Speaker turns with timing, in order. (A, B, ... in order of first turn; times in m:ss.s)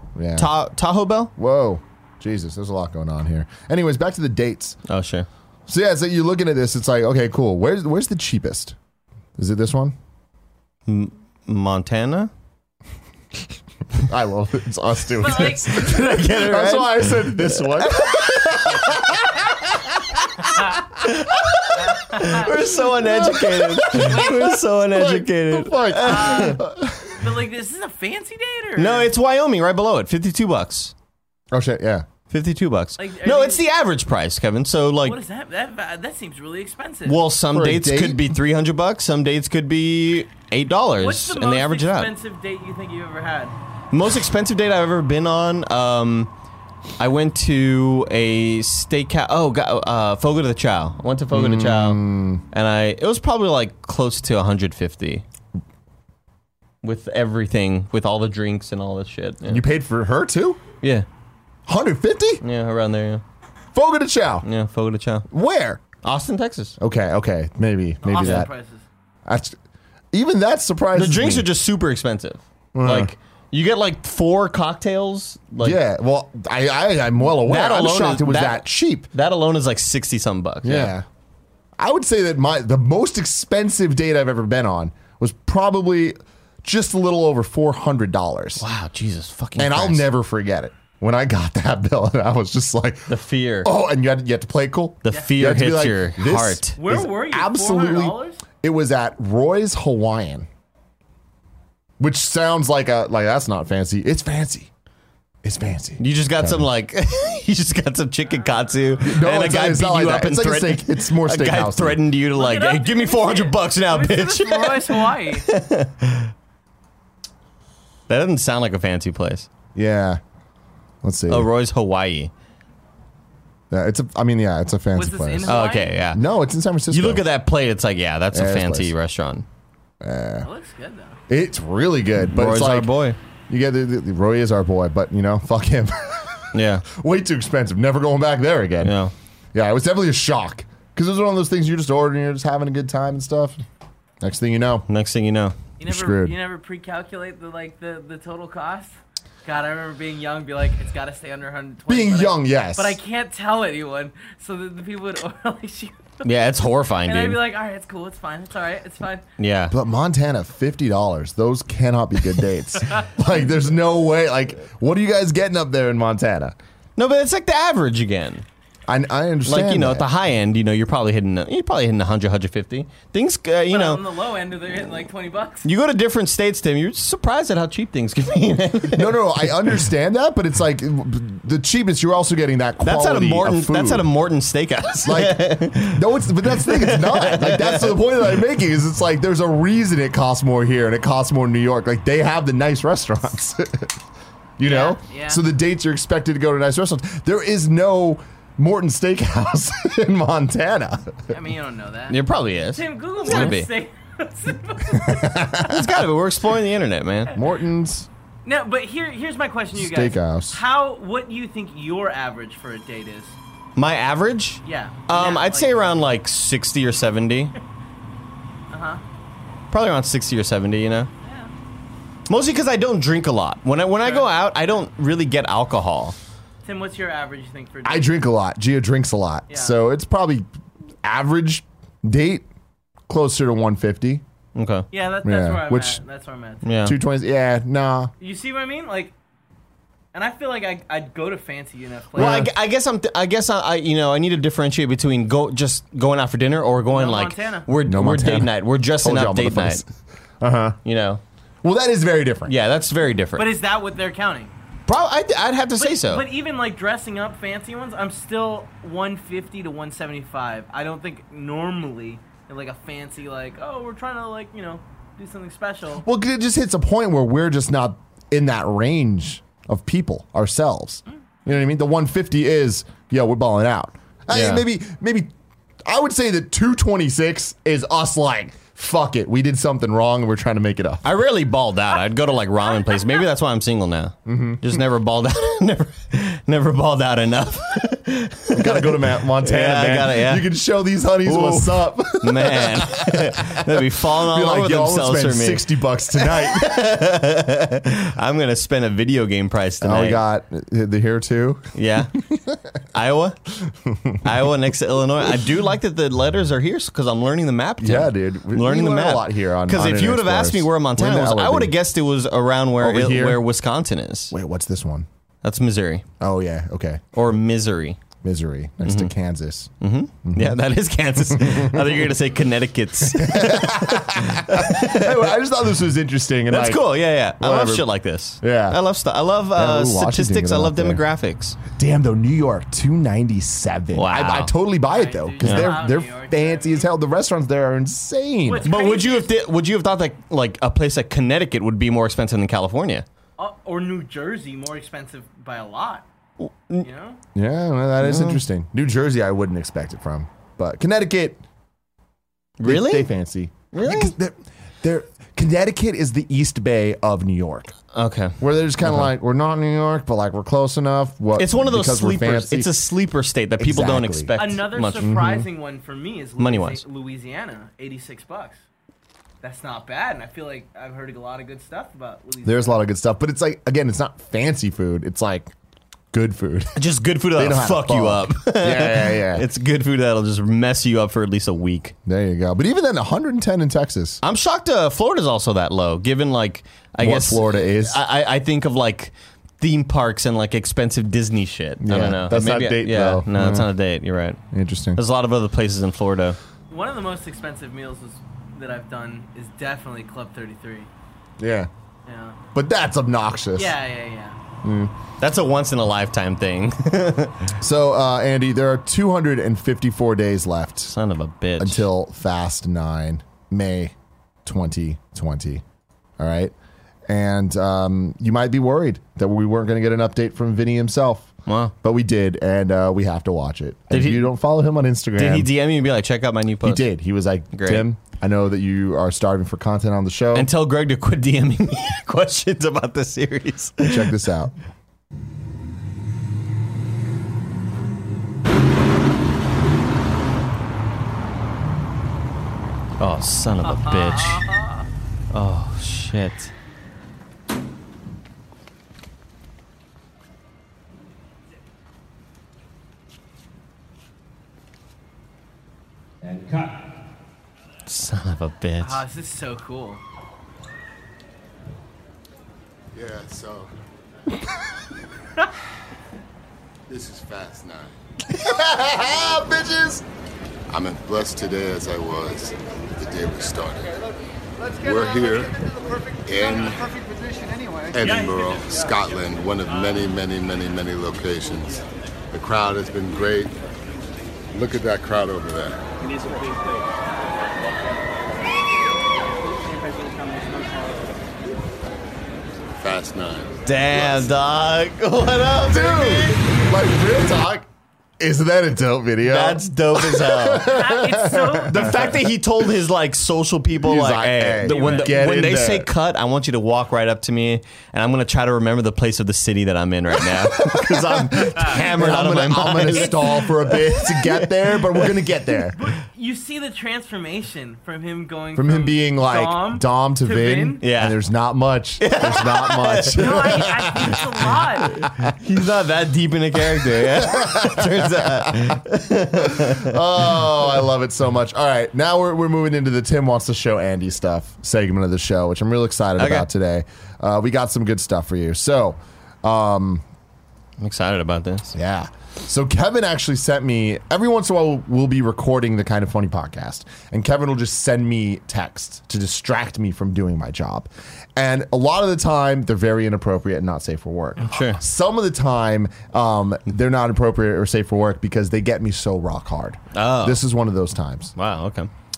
0:00.2-0:00.5 A
0:00.4-0:01.3 B
0:01.4-0:04.8 A
0:04.8-0:05.3 B
0:05.7-0:08.8 A
0:09.4-0:09.9 A
0:10.9-0:12.3 B
0:14.0-0:20.7 A
0:15.2-0:16.4 C
0:15.8-0:19.0 B
0:21.0-0:26.6 B
0:21.9-0:22.5 C
0:22.5-0:27.2 A
0:23.9-0:24.6 C
0:26.0-0:26.6 C
0:27.1-0:29.1 C
0:28.8-0:30.9 B
0:31.5-0:32.1 A
0:32.3-0:35.2 B
0:33.0-0:33.6 C
0:35.0-0:37.2 C
0:37.0-0:42.1 B
0:37.5-0:38.3 A
0:41.0-0:43.5 C
0:43.9-0:46.3 B
0:47.0-0:52.0 B
0:51.3-0:52.4 A
0:52.5-0:55.2 B
0:56.8-0:59.6 B
0:59.4-1:00.6 A
1:01.7-1:02.4 A
1:02.4-1:03.2 B
1:03.7-1:04.4 A
1:04.4-1:05.3 B
1:05.3-1:05.8 A
1:06.0-1:06.8 B
1:06.8-1:08.5 A
1:08.0-1:08.8 C
1:09.2-1:09.6 A
1:10.1-1:11.5 A
1:10.9-1:15.8 B
1:12.7-1:13.1 A
1:15.6-1:19.1 A
1:17.4-1:20.9 B
1:20.6-1:21.0 A
1:21.8-1:28.6 A
1:28.6-1:30.1 B
1:29.6-1:40.5 A
1:33.1-1:33.7 B
1:35.0-1:36.8 B
1:36.8-1:38.4 C
1:42.0-1:44.7 A
1:45.4-1:46.7 A
1:46.0-1:56.3 B
1:49.0-1:52.0 A
1:52.3-1:55.5 C
1:58.1-1:59.5 B
1:59.7-2:00.2 A
2:01.0-2:01.5 A
2:01.3-2:02.3 B
2:03.7-2:07.3 A
2:04.9-2:06.0 C
2:05.5-2:06.2 B
2:06.9-2:09.4 B
2:08.3-2:08.9 A
2:10.0-2:10.5 A
2:10.4-2:11.2 C
2:11.3-2:12.9 A
2:12.3-2:13.2 B
2:13.5-2:19.0 A
2:16.5-2:16.8 B
2:18.8-2:19.1 B
2:19.5-2:23.6 A
2:24.2-2:24.8 A
2:24.9-2:25.6 B
2:25.8-2:36.3 C
2:25.9-2:26.4 A
2:31.9-2:33.0 A
2:36.2-2:37.4 B
2:37.0-2:39.2 C
2:39.4-2:39.7 B
2:39.7-2:46.6 A
2:47.0-2:48.4 B
2:48.9-2:50.1 A
2:49.4-2:54.0 B
2:53.7-2:55.7 C
2:55.6-2:59.5 B
2:58.9-3:04.1 A
3:02.8-3:08.1 B
3:05.0-3:13.9 A
3:14.6-3:21.3 A
3:14.6-3:15.4 C
3:21.3-3:22.2 C
3:22.1-3:23.7 B
3:22.7-3:25.7 C
3:24.9-3:25.8 A
3:25.7-3:27.3 B
3:27.3-3:28.1 A
3:28.4-3:33.4 C
3:29.7-3:30.6 A
3:33.8-3:37.5 B
3:34.6-3:35.9 C
3:38.7-3:39.0 C
3:39.7-3:41.1 B
3:41.2-3:41.5 C
3:42.3-3:46.2 B
3:44.0-3:44.3 C
3:46.6-3:48.2 C
3:47.8-3:50.5 A
3:49.5-3:49.8 C
3:51.0-3:52.5 A
3:53.1-3:54.2 A
3:54.6-3:54.9 B
3:54.9-3:56.6 C
3:55.2-3:56.0 A
3:56.6-3:57.0 B
3:56.8-3:58.1 A
3:58.2-3:59.1 C
4:00.1-4:02.5 C
4:02.2-4:02.5 A
4:02.2-4:09.8 B
4:06.9-4:07.7 C
4:07.8-4:09.9 A
4:10.4-4:10.8 A
4:10.8-4:11.2 B
4:11.6-4:12.5 A
4:12.4-4:13.5 B
4:13.4-4:14.5 C
4:14.9-4:16.2 B
4:15.8-4:26.0 C
4:26.0-4:35.3 A
4:34.3-4:34.6 B
4:35.8-4:41.0 A
4:41.0-4:50.5 B
4:44.2-4:44.8 A
4:48.5-4:56.8 A
4:51.2-5:00.2 B
4:59.8-5:02.6 A
5:01.7-5:02.1 B
5:02.9-5:03.4 B
5:03.6-5:04.3 A
5:04.2-5:14.3 B
5:07.8-5:11.8 A
5:12.8-5:13.4 A
5:14.3-5:15.1 A
5:15.4-5:16.0 B
5:16.2-5:17.0 A
5:17.1-5:18.0 B
5:18.2-5:19.7 A
5:18.8-5:19.1 B
5:19.8-5:25.4 B
5:20.2-5:20.6 A
5:21.2-5:22.1 A
5:23.0-5:27.9 A
5:26.5-5:31.6 B
5:28.4-5:28.8 A
5:29.5-5:31.0 A
5:31.7-5:38.7 A
5:33.9-5:34.5 B
5:34.9-5:36.9 C
5:35.4-5:35.7 B
5:38.4-5:39.3 C
5:38.6-5:43.0 B
5:43.4-5:46.0 C
5:46.4-5:46.9 B
5:46.8-5:47.2 C
5:47.3-5:51.4 A
5:48.0-5:48.4 B
5:52.6-5:53.1 B
5:52.6-5:57.7 A
5:53.7-5:54.1 B
5:57.9-5:59.1 B
5:58.4-6:02.7 A
6:01.4-6:05.1 B
6:03.6-6:04.3 A
6:04.4-6:08.6 C
6:05.0-6:05.5 A
6:06.4-6:06.8 B
6:09.4-6:12.8 C
6:12.4-6:15.5 A
6:16.1-6:19.4 A
6:16.8-6:21.9 B
6:22.0-6:24.2 A
6:24.2-6:34.4 B
6:27.0-6:28.0 A
6:31.8-6:33.7 A
6:34.5-6:35.0 A
6:35.0-6:36.4 B
6:36.7-6:40.9 C
6:41.4-6:41.7 A
6:42.0-6:42.4 C
6:42.5-6:43.8 A
6:43.5-6:44.4 C
6:44.6-6:44.9 A
6:45.2-6:47.5 B
6:47.6-6:50.9 A
6:50.9-6:51.9 B
6:51.6-6:53.9 A
6:54.4-6:55.6 A
6:56.2-6:56.5 A
6:57.1-7:01.3 A
7:01.5-7:01.7 B
7:01.8-7:05.5 A
7:03.9-7:04.3 B
7:05.2-7:06.9 B
7:06.6-7:10.5 A
7:07.5-7:07.9 B
7:10.3-7:14.2 B
7:13.8-7:14.5 A
7:23.0-7:24.4 B
7:23.6-7:24.9 C
7:25.3-7:26.5 B
7:37.9-7:39.0 B
7:38.8-7:40.0 C
7:42.9-7:43.7 D
7:46.9-7:47.9 D
7:48.3-7:50.0 A
7:48.9-7:49.9 D
7:50.7-7:54.0 D
7:54.7-7:56.9 D
7:57.9-8:03.6 D
8:04.5-8:05.8 D
8:12.7-8:14.2 D
8:13.6-8:16.4 B
8:15.6-8:17.7 A
8:18.2-8:22.3 A
8:19.2-8:20.7 B
8:20.6-8:21.9 C
8:21.7-8:35.2 B
8:23.8-8:25.9 A
8:24.6-8:25.2 C
8:30.2-8:35.8 A
8:32.9-8:33.4 C
8:35.8-8:40.8 C
8:38.5-8:44.5 A
8:40.8-8:41.2 B
8:42.0-8:43.4 B
8:43.1-8:45.0 C
8:45.0-8:45.3 A
8:45.2-8:50.4 B
8:46.7-8:48.8 A
8:49.4-9:00.0 A
8:56.2-8:56.5 B
9:00.8-9:01.7 B
9:01.7-9:21.3 A
9:14.4-9:14.8 B
9:19.9-9:20.4 B
9:21.4-9:21.9 B